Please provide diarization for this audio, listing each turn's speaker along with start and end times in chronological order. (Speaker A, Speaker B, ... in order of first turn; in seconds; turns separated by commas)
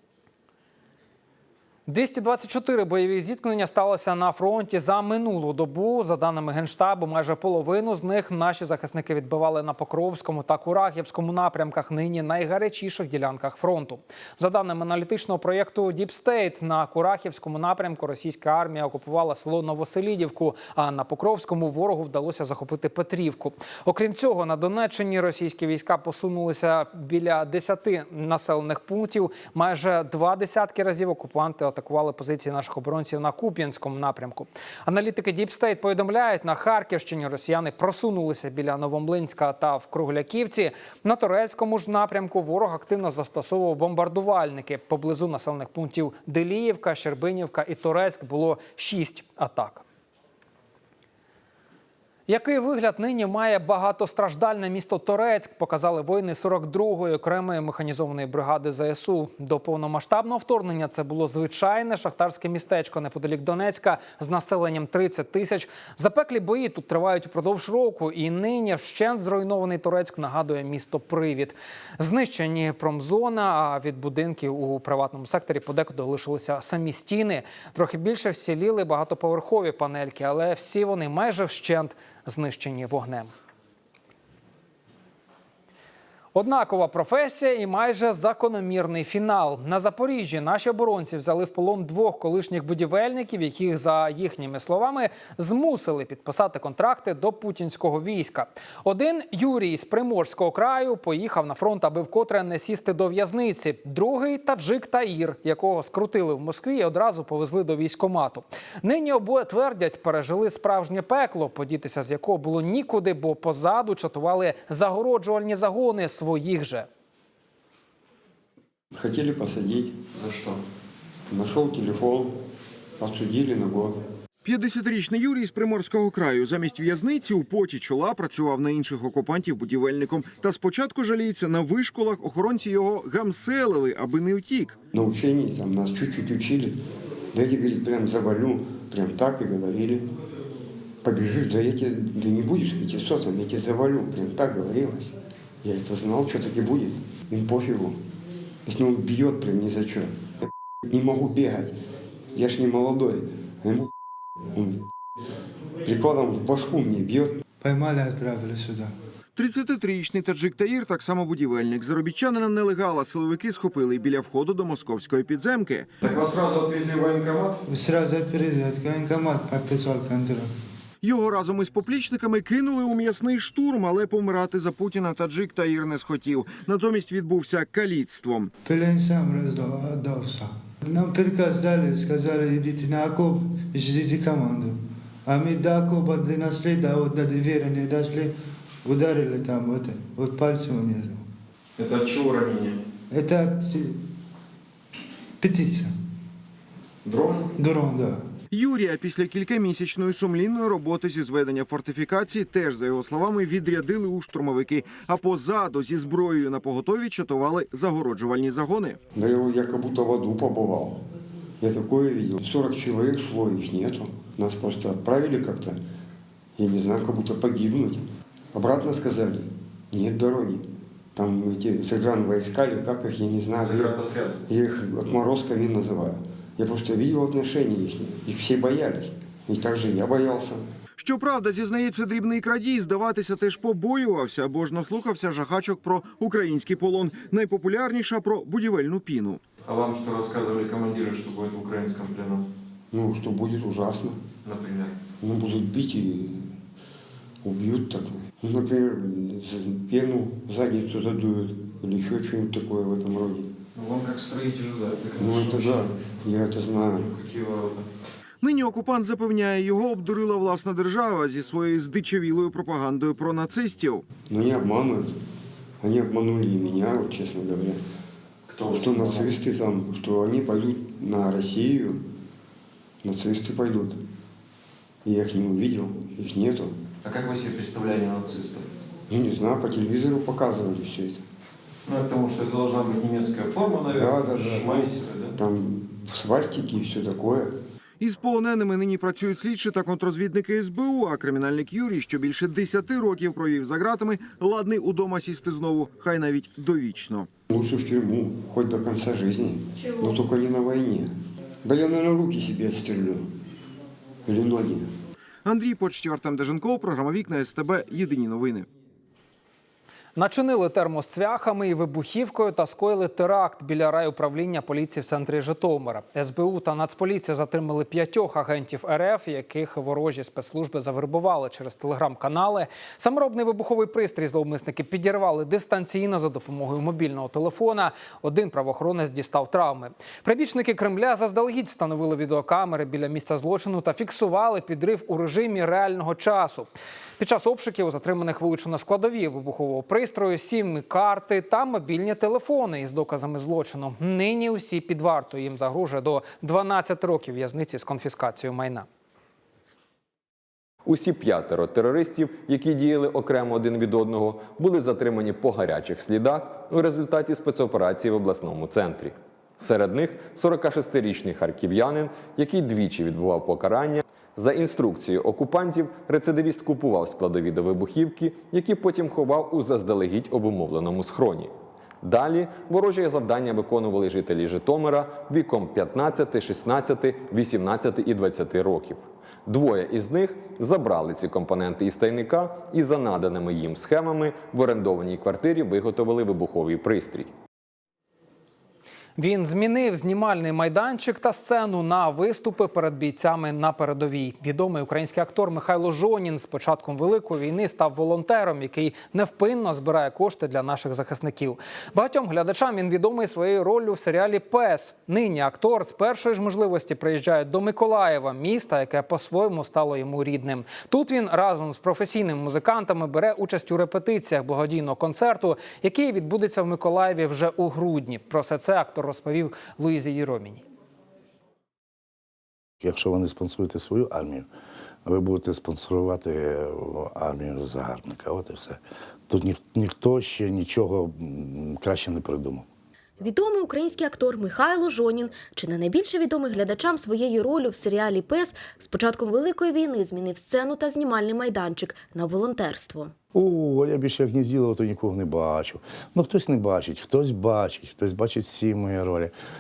Speaker A: 1.9-49.8, Speaker A: 52.3-83.3, Speaker A: 86.3-116.9, Speaker B: 118.9-120.0, Speaker C: 120.2-120.6, Speaker B: 121.3-122.3, Speaker B: 123.0-124.0, Speaker D: 124.5-134.8, Speaker B: 134.9-136.8, Speaker B: 137.3-140.0, Speaker B: 141.0-148.0, Speaker B: 148.7-150.1, Speaker B: 150.9-151.7, Speaker B: 152.3-153.9, Speaker B: 154.5-154.8, Speaker B: 155.8-157.4, Speaker E: 157.6-158.9, Speaker D: 159.3-165.9, Speaker C: 166.0-167.6, Speaker E: 167.7-170.5, Speaker D: 171.0-178.5, Speaker E: 178.7-188.3, Speaker E: 188.8-191.2, Speaker C: 191.8-192.8, Speaker E: 193.1-193.9, Speaker E: 195.4-195.9, Speaker C: 197.0-197.5, Speaker E: 197.6-198.2, Speaker D: 198.5-209.0, Speaker B: 209.1-211.0, Speaker B: 211.6-215.8, Speaker B: 216.6-218.0, Speaker B: 218.5-220.7, Speaker B: 221.2-230.6, Speaker C: 223.6-224.3, Speaker D: 231.0-239.4, Speaker C: 239.6-242.5, Speaker B: 242.9-244.2, Speaker C: 244.4-244.9, Speaker B: 245.2-246.5, Speaker B: 247.4-253.5, Speaker C: 253.8-256.0, Speaker B: 255.2-257.1, Speaker C: 257.0-257.9, Speaker D: 258.4-264.0, Speaker B: 264.3-265.1, Speaker B: 265.8-267.8, Speaker C: 268.5-269.4, Speaker B: 268.7-272.0, Speaker B: 273.0-274.0, Speaker B: 275.0-276.7, Speaker C: 277.0-278.7, Speaker B: 279.1-281.2, Speaker C: 281.9-285.4, Speaker B: 283.9-287.5, Speaker D: 288.0-297.3, Speaker B: 297.5-301.1, Speaker B: 301.6-303.2, Speaker B: 304.2-304.9, Speaker D: 305.4-308.7, Speaker A: 310.1-348.9, Speaker F: 350.9-387.3, Speaker A: 389.2-420.6, Speaker G: 422.8-424.5, Speaker G: 425.0-432.6, Speaker H: 433.2-443.1, Speaker G: 443.3-449.3